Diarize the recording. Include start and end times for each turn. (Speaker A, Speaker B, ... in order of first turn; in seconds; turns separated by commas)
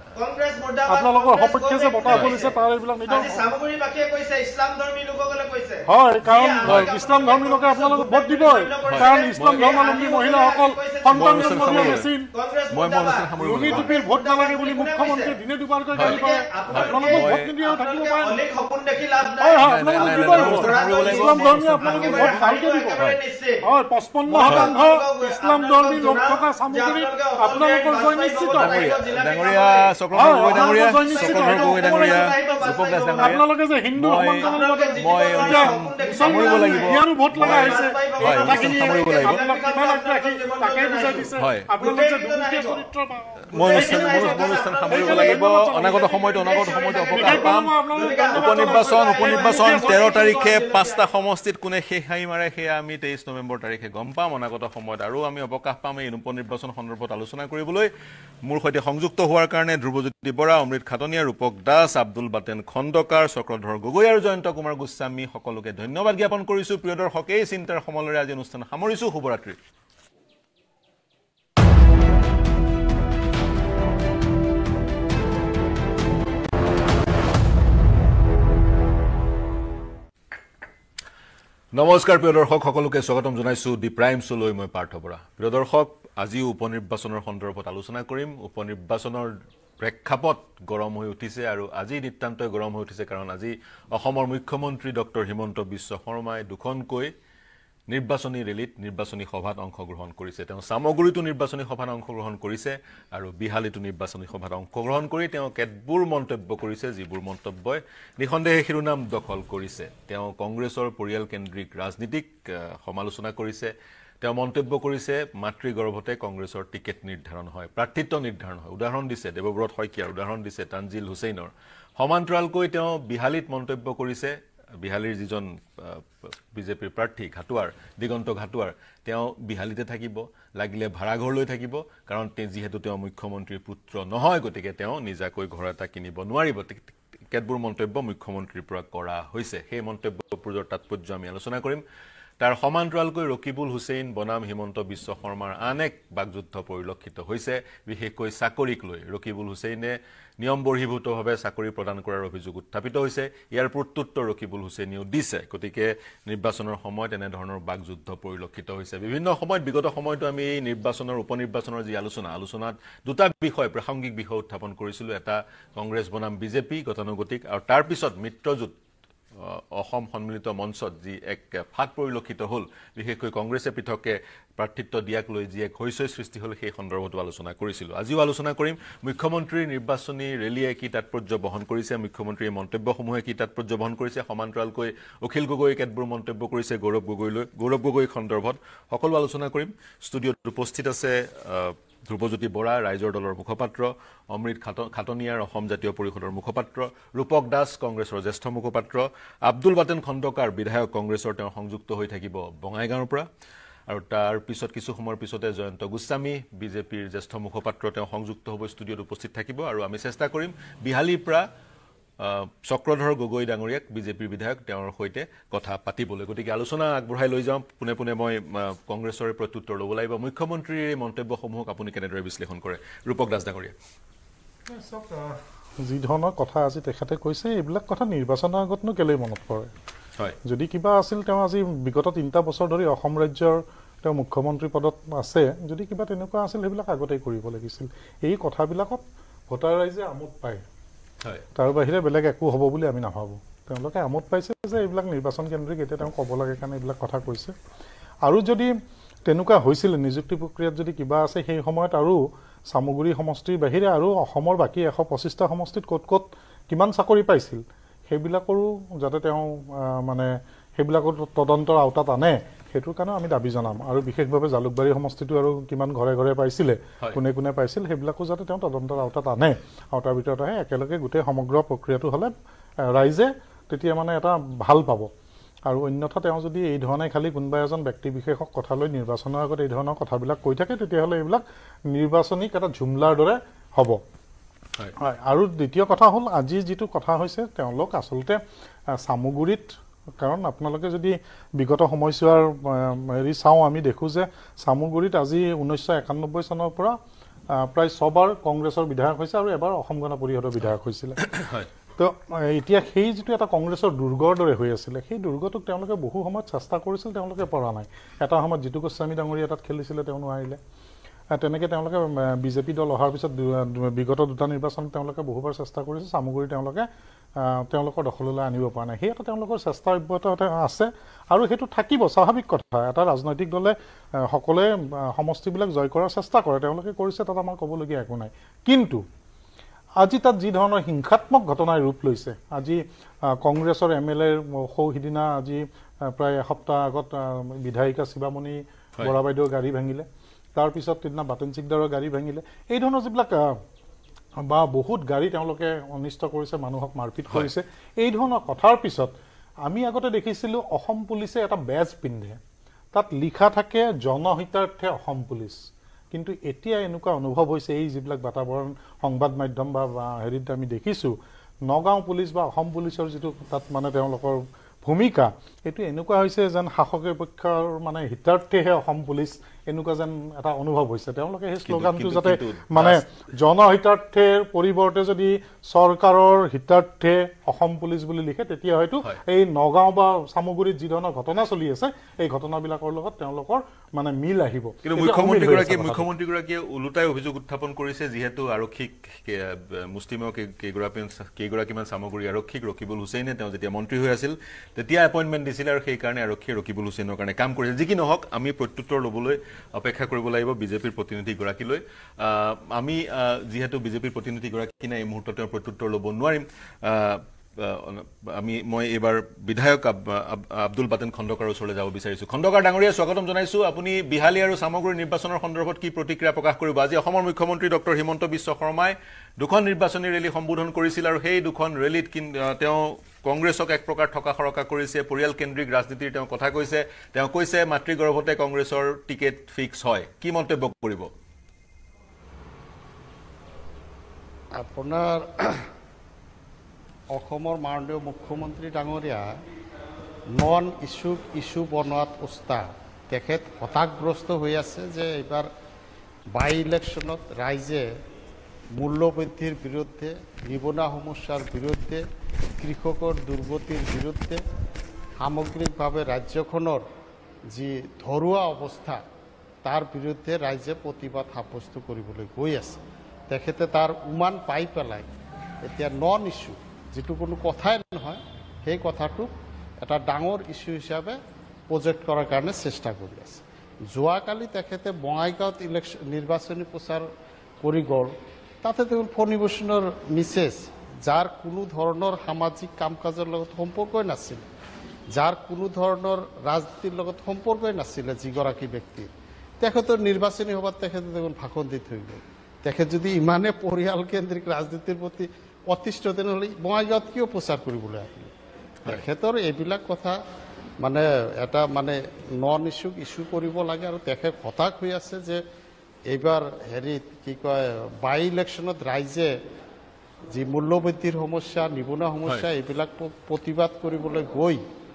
Speaker A: 0.2-2.6, Speaker B: 0.9-3.5, Speaker C: 2.1-2.4, Speaker A: 3.1-15.4, Speaker B: 5.9-12.3, Speaker C: 8.9-9.8, Speaker C: 11.1-12.1, Speaker C: 12.7-13.9, Speaker B: 13.4-18.4, Speaker C: 15.9-17.5, Speaker A: 16.0-23.6, Speaker B: 19.4-23.0, Speaker C: 19.6-22.3, Speaker B: 23.6-28.8, Speaker A: 24.3-33.4, Speaker C: 24.4-24.7, Speaker C: 28.5-39.4, Speaker B: 30.1-32.5, Speaker B: 33.2-46.1, Speaker A: 34.4-42.9, Speaker C: 41.4-41.7, Speaker C: 43.5-47.8, Speaker A: 43.5-51.1, Speaker B: 46.9-50.4, Speaker C: 48.3-57.9, Speaker C: 58.5-69.6, Speaker C: 81.7-97.1, Speaker C: 97.9-141.8, Speaker C: 142.4-168.8, Speaker C: 169.3-203.3, Speaker C: 203.9-211.5, Speaker C: 212.2-223.7, Speaker B: 224.7-229.7, Speaker B: 230.4-240.6, Speaker B: 241.6-247.5, Speaker B: 248.2-248.7, Speaker B: 249.3-272.3, Speaker B: 272.9-275.1, Speaker B: 275.7-284.0, Speaker B: 285.0-288.4, Speaker B: 288.9-297.0, Speaker B: 297.6-301.2, Speaker C: 301.3-301.7, Speaker B: 302.0-310.6, Speaker B: 311.3-316.9, Speaker B: 317.4-329.0, Speaker B: 330.0-343.4, Speaker B: 344.5-349.1, Speaker B: 349.6-352.4, Speaker B: 352.9-355.6, Speaker B: 356.1-386.1, Speaker C: 371.6-373.1, Speaker C: 384.9-431.1, Speaker D: 434.5-435.7, Speaker D: 437.1-439.4, Speaker D: 440.3-445.5, Speaker D: 446.3-447.8, Speaker D: 448.8-452.0, Speaker D: 452.6-454.4, Speaker D: 455.2-456.8, Speaker D: 457.5-459.0, Speaker D: 459.6-465.1, Speaker D: 465.6-471.2, Speaker D: 471.7-477.1, Speaker D: 477.6-484.5, Speaker D: 485.1-489.1, Speaker D: 489.6-498.3, Speaker D: 498.9-500.2, Speaker D: 500.8-505.4, Speaker D: 506.1-509.3, Speaker D: 510.3-514.6